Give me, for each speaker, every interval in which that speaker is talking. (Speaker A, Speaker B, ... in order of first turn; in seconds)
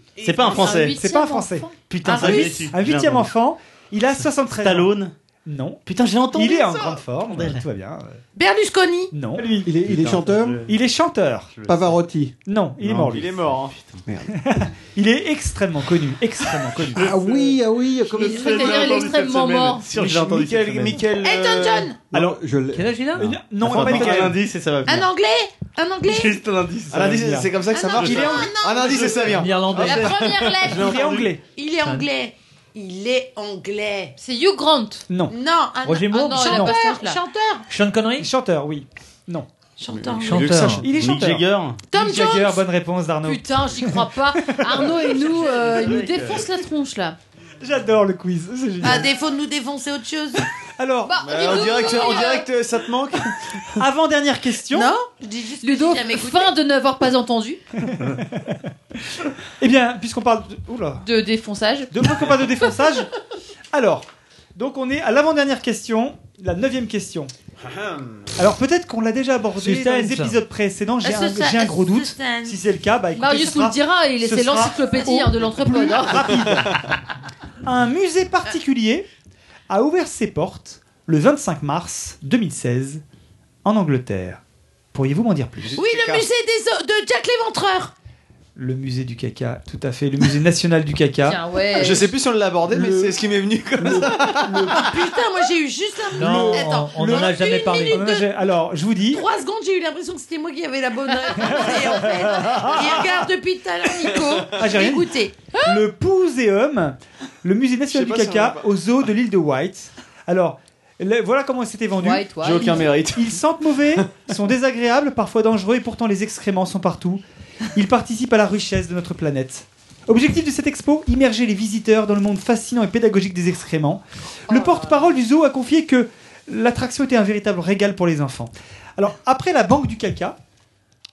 Speaker A: 0.2-1.0, 1.9-3.3, 4.5-5.2, 5.9-7.6, 9.8-10.7, 11.6-11.9, 12.8-14.0, 17.0-17.3, 18.4-21.2, 23.6-25.1, 26.0-27.1, 28.0-28.3, 28.8-29.4, 30.8-31.3, 40.9-41.8, 45.4-46.4
Speaker B: 0.4-2.5, 18.1-19.9, 29.9-30.8, 34.2-35.1, 36.3-37.2, 43.2-47.2, 51.0-52.5, 55.6-57.6, 61.0-61.9, 73.2-76.6, 91.3-92.1, 112.0-112.9, 124.5-125.0
Speaker C: 0.6-8.2, 9.1-9.7, 10.7-11.5, 12.4-13.3, 14.3-17.1, 22.1-22.4, 23.2-24.4, 26.9-28.5, 30.7-31.4, 35.1-35.4, 38.2-39.5, 40.8-45.1, 47.6-49.1, 50.8-51.6, 53.8-55.0, 57.8-58.6, 59.6-61.1, 61.9-63.1, 63.7-67.3, 68.4-76.8, 77.6-79.1, 79.7-83.0, 83.7-84.4, 84.9-85.8, 88.6-91.8, 96.2-97.3, 97.9-99.2, 101.4-103.3, 104.5-117.2, 117.8-130.4
Speaker D: 2.1-2.7, 8.4-9.1, 18.2-18.9, 21.2-22.0, 24.9-26.4, 27.7-34.1, 35.3-37.6, 39.8-40.6, 41.9-42.6, 48.8-50.5, 54.7-56.6, 71.0-72.6, 85.8-87.9, 94.7-98.3, 99.1-105.8
Speaker E: 9.6-10.7, 11.7-12.3, 14.1-14.3, 17.0-19.0, 22.1-23.4, 92.7-93.2, 93.8-94.9
Speaker F: 13.0-13.8, 17.1-17.6, 18.4-19.0, 19.9-21.9, 26.9-31.2, 39.9-41.1, 51.2-53.8, 85.6-86.3, 91.8-94.9, 107.9-108.7, 112.4-114.2
Speaker G: 22.7-23.3, 29.3-30.2, 31.8-32.1, 35.8-36.8, 37.7-38.3, 40.2-40.9, 69.6-70.4, 96.2-98.1